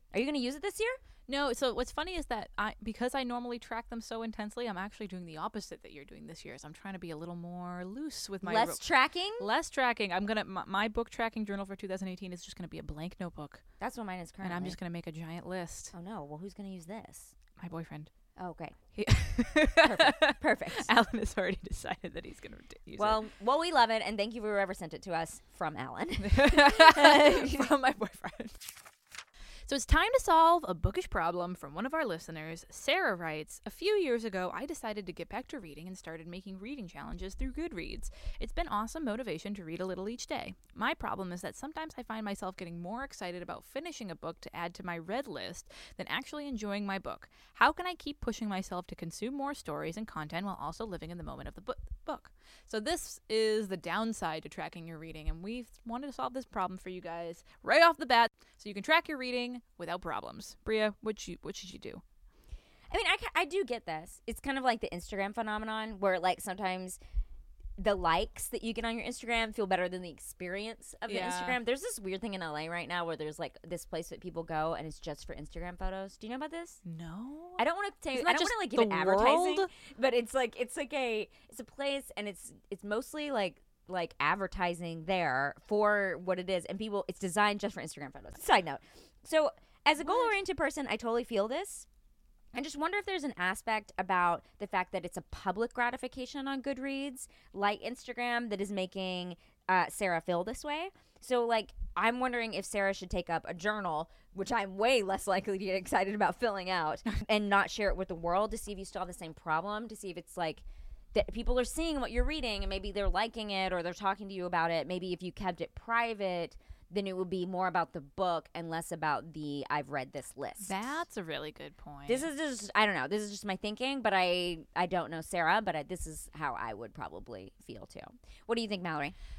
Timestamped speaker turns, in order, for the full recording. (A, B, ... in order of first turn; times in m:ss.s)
0:00.1-0:01.0 A
0:01.3-0:08.8 B
0:08.4-0:09.4 A
0:09.4-0:13.6 B
0:13.8-0:14.8 A
0:14.4-0:15.9 B
0:15.9-0:17.3 A
0:17.6-0:18.1 B
0:18.4-0:18.8 A
0:18.9-0:23.2 B
0:19.8-0:20.9 A
0:23.0-0:27.7 A
0:26.2-0:28.6 B
0:29.7-1:02.0 B
1:02.9-1:07.0 A
1:07.8-1:16.8 A
1:11.1-1:11.6 B
1:16.8-1:19.7 B
1:17.6-1:31.9 A
1:30.0-1:30.3 B
1:32.5-2:01.0 A
2:00.6-2:02.3 B
2:02.1-2:09.1 A